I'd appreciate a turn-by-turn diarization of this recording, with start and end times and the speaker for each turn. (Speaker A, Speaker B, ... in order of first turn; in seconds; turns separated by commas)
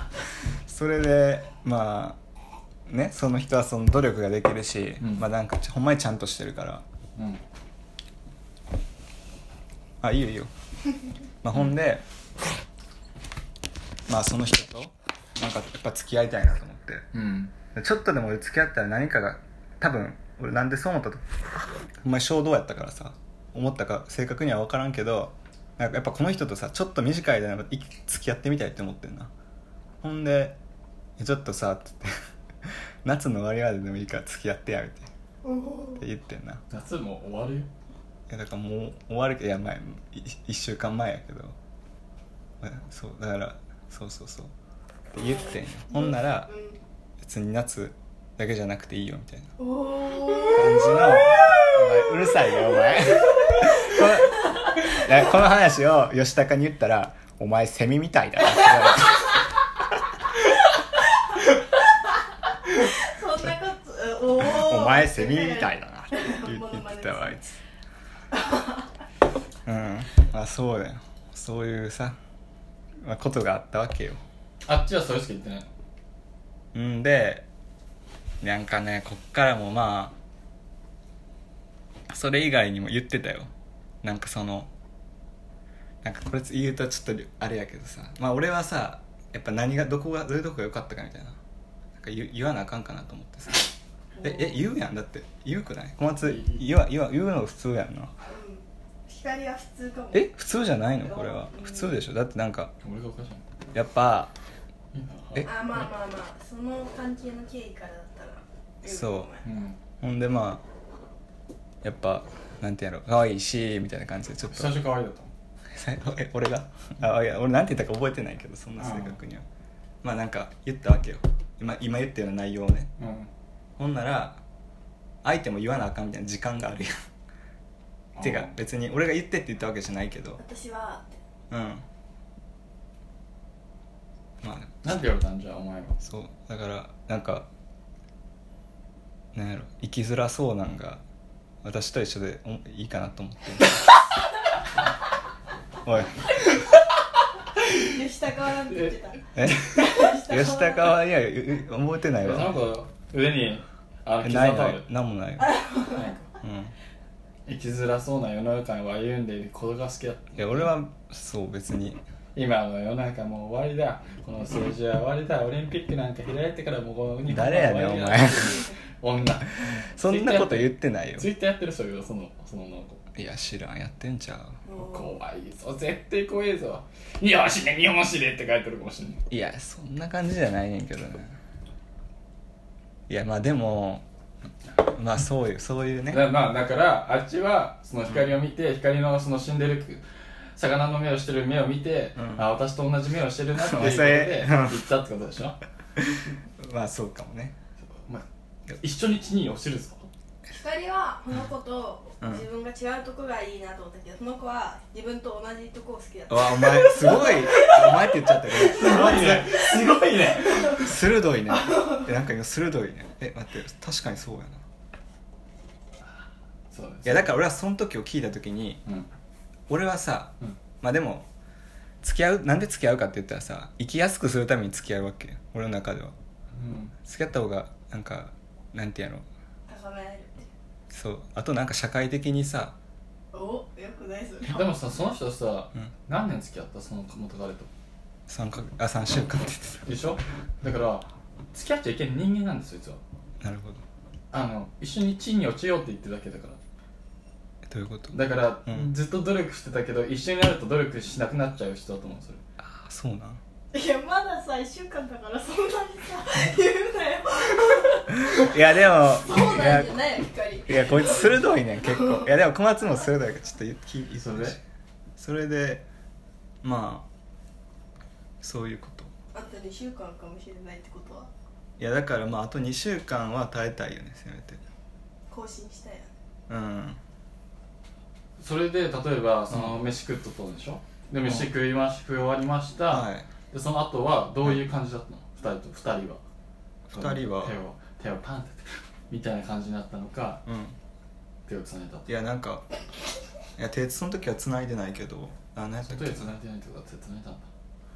Speaker A: 0.7-2.2, Speaker A: 2.9-6.8, Speaker B: 5.0-5.3, Speaker A: 10.0-10.5, Speaker A: 11.4-12.0, Speaker A: 14.1-17.1, Speaker B: 17.1-17.5, Speaker A: 17.7-21.2, Speaker A: 21.9-29.3, Speaker A: 30.0-30.6, Speaker A: 31.2-35.1, Speaker C: 35.4-36.0, Speaker A: 36.0-36.6, Speaker B: 36.7-37.7, Speaker A: 38.3-41.6, Speaker A: 42.6-44.5, Speaker A: 45.1-46.5, Speaker C: 45.9-46.8, Speaker A: 47.2-49.5, Speaker C: 49.6-52.0, Speaker A: 50.5-59.4, Speaker C: 53.1-54.0, Speaker C: 62.7-67.5, Speaker A: 64.4-67.5, Speaker C: 68.3-68.8, Speaker A: 69.7-72.2, Speaker A: 73.0-74.2, Speaker B: 74.7-75.7, Speaker A: 76.7-77.5, Speaker A: 78.4-80.2, Speaker A: 82.1-83.5, Speaker A: 84.0-84.7, Speaker A: 86.0-91.4, Speaker A: 92.0-93.7, Speaker C: 94.2-94.5, Speaker A: 94.2-98.1, Speaker B: 96.2-96.6, Speaker C: 98.2-100.3, Speaker A: 100.1-102.7, Speaker C: 101.0-102.0, Speaker B: 102.8-103.4, Speaker A: 103.7-104.3, Speaker B: 104.9-105.7, Speaker C: 105.4-109.5, Speaker A: 108.8-109.3, Speaker B: 109.4-109.8, Speaker A: 110.0-110.6, Speaker A: 111.8-114.8, Speaker B: 114.5-115.3, Speaker A: 115.7-119.5, Speaker B: 118.8-119.2, Speaker A: 120.0-122.9, Speaker B: 123.0-123.3, Speaker A: 123.8-124.4, Speaker A: 125.2-127.0, Speaker B: 128.2-128.5, Speaker A: 128.2-130.4, Speaker C: 130.4-131.1, Speaker A: 131.5-131.8, Speaker A: 134.4-134.9, Speaker B: 134.8-136.0, Speaker A: 136.0-137.5, Speaker A: 139.3-141.0, Speaker A: 141.6-143.8, Speaker A: 145.8-146.4, Speaker C: 147.7-151.0, Speaker B: 148.7-149.8, Speaker A: 149.4-152.6, Speaker B: 152.2-154.9, Speaker A: 154.2-155.6, Speaker C: 155.4-156.0, Speaker B: 155.9-156.3, Speaker A: 156.4-156.7, Speaker B: 157.5-160.7, Speaker A: 160.4-162.0, Speaker B: 162.3-173.0, Speaker A: 167.3-168.6, Speaker A: 169.6-171.3, Speaker A: 173.2-174.6, Speaker C: 174.7-175.1, Speaker B: 174.7-179.2, Speaker A: 179.3-181.4, Speaker A: 183.1-184.1, Speaker A: 184.8-186.2, Speaker B: 186.1-195.6, Speaker A: 192.2-192.4, Speaker A: 193.6-194.8, Speaker A: 196.0-197.6, Speaker B: 197.8-200.1, Speaker C: 200.6-208.3, Speaker A: 206.3-209.6, Speaker B: 208.5-210.9, Speaker A: 210.7-214.6, Speaker C: 211.5-212.1, Speaker B: 216.7-217.3, Speaker A: 217.1-218.8, Speaker A: 219.7-221.3, Speaker A: 222.0-226.2, Speaker B: 226.5-226.9, Speaker A: 227.1-229.2, Speaker C: 229.7-230.5, Speaker A: 230.9-232.8, Speaker C: 233.3-234.7, Speaker B: 234.4-237.7, Speaker A: 238.3-239.9, Speaker B: 239.8-243.0, Speaker A: 243.4-243.8, Speaker B: 244.3-246.6, Speaker A: 247.7-248.9, Speaker B: 248.1-252.4, Speaker A: 252.6-253.4, Speaker C: 253.7-262.2, Speaker A: 258.1-260.0, Speaker A: 260.7-264.6, Speaker B: 264.2-264.6, Speaker A: 265.2-265.8, Speaker A: 266.6-267.1, Speaker A: 268.4-269.1, Speaker C: 269.3-271.3, Speaker A: 271.8-274.6, Speaker C: 275.3-276.1, Speaker A: 276.5-277.0, Speaker B: 278.4-286.2, Speaker A: 279.5-279.8, Speaker A: 282.9-283.3, Speaker A: 286.9-287.6, Speaker B: 286.9-290.4, Speaker A: 290.5-290.8, Speaker B: 291.5-292.1, Speaker A: 292.1-292.6, Speaker A: 293.6-296.3, Speaker B: 295.9-297.5